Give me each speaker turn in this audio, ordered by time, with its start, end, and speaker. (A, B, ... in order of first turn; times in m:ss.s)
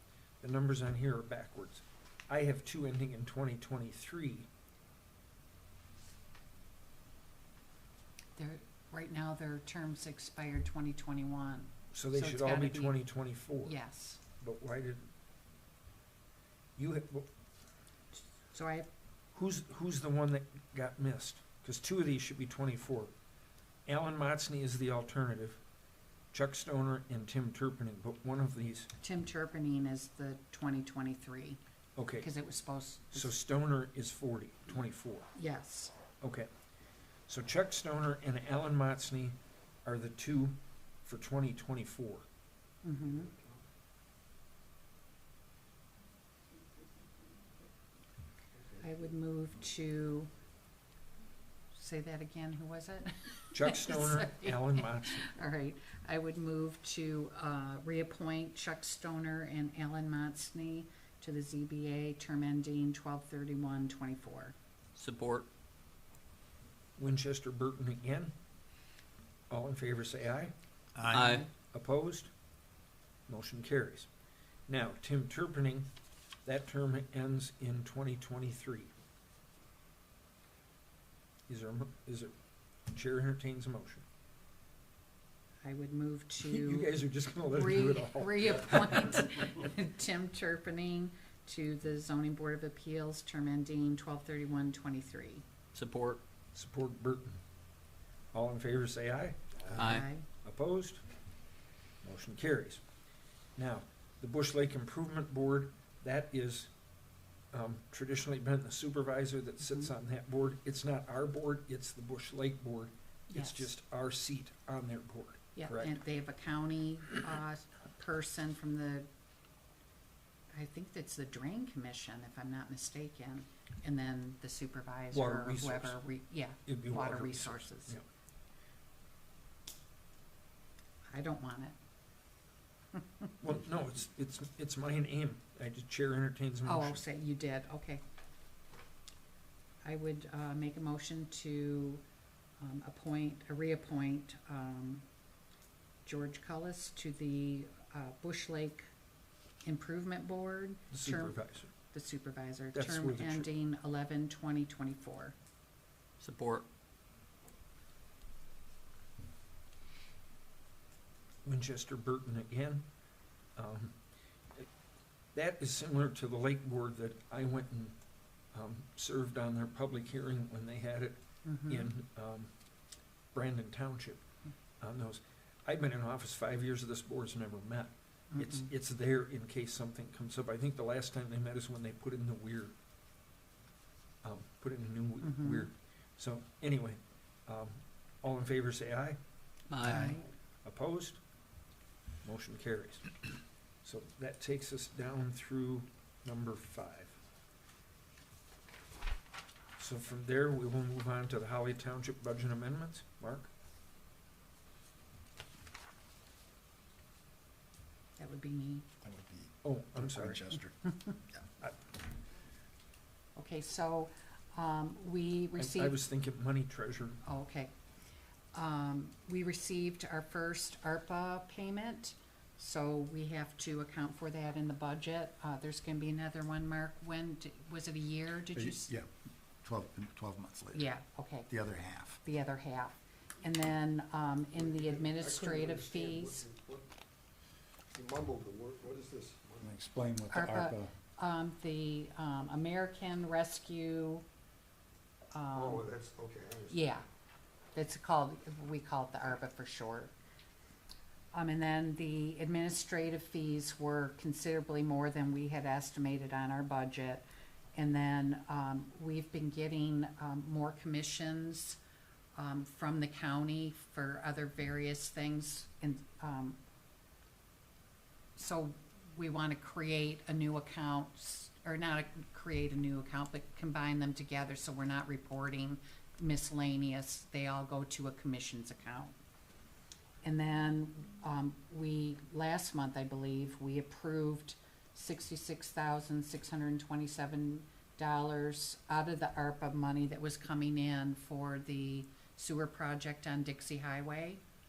0:00.4-0:04.5 A
0:08.4-0:13.0 B
0:11.9-0:13.8 A
0:13.6-0:14.2 B
0:14.4-0:15.1 A
0:16.8-0:17.3 A
0:18.5-0:18.9 B
0:19.3-0:23.1 A
0:23.8-0:25.6 A
0:26.3-0:28.9 A
0:29.0-0:31.6 B
0:32.0-0:32.3 A
0:32.2-0:33.4 B
0:33.1-0:35.3 A
0:35.4-0:35.9 B
0:36.2-0:36.5 A
0:37.3-0:42.2 A
0:42.8-0:43.3 B
0:48.8-0:50.3 B
0:51.7-1:04.6 B
0:53.5-0:55.3 A
1:05.0-1:05.5 C
1:07.0-1:08.3 A
1:09.5-1:10.5 A
1:11.0-1:11.4 D
1:11.1-1:11.5 C
1:11.7-1:12.3 A
1:13.3-1:14.1 A
1:14.7-1:15.9 A
1:16.4-1:18.9 A
1:21.5-1:22.3 A
1:22.9-1:24.0 A
1:25.6-1:35.4 B
1:26.4-1:29.1 A
1:35.7-1:36.2 C
1:36.5-1:37.4 A
1:38.3-1:39.9 A
1:39.7-1:40.1 C
1:39.8-1:40.3 B
1:40.4-1:41.0 A
1:42.0-1:42.8 A
1:43.6-1:46.7 A
1:47.5-1:56.0 A
1:53.3-1:53.7 B
1:55.6-1:59.1 B
2:00.5-2:08.0 B
2:05.1-2:06.0 A
2:06.6-2:08.0 A
2:11.1-2:11.8 B
2:12.9-2:13.3 B
2:13.4-2:17.0 A
2:16.6-2:18.0 B
2:19.8-2:22.0 B
2:22.6-2:25.0 B
2:26.0-2:28.9 B
2:29.6-2:35.4 B
2:30.9-2:31.7 A
2:32.7-2:33.5 A
2:36.2-2:36.6 C
2:41.4-2:42.9 A
2:43.6-2:44.0 A
2:45.3-2:48.0 A
2:48.5-2:52.5 A
2:51.4-2:51.9 B
2:53.3-2:54.2 A
2:54.8-3:02.7 A
2:58.3-2:58.7 B
3:04.2-3:09.2 A
3:05.2-3:05.7 B
3:09.7-3:10.1 C
3:09.8-3:10.2 B
3:10.6-3:11.2 A
3:12.2-3:13.1 A
3:13.8-3:17.2 A
3:19.8-3:23.5 A
3:28.2-3:28.8 B
3:29.0-3:30.8 D
3:29.6-3:30.5 A
3:33.4-3:36.0 B
3:35.6-3:37.2 A
3:37.2-3:37.7 B
3:38.5-3:48.9 B
3:48.5-3:49.1 D
3:49.6-3:50.9 D
3:50.7-3:51.5 B
3:51.5-3:52.2 D
3:52.2-3:56.4 B
3:54.5-3:56.9 E
3:57.9-3:59.7 E
3:59.6-4:00.9 D
4:00.3-4:04.2 B
4:05.3-4:05.9 B
4:05.5-4:06.8 E
4:06.7-4:07.0 B
4:07.7-4:10.1 B
4:11.3-4:21.8 B
4:22.4-4:26.6 B
4:28.4-4:39.2 B
4:40.2-4:54.4 B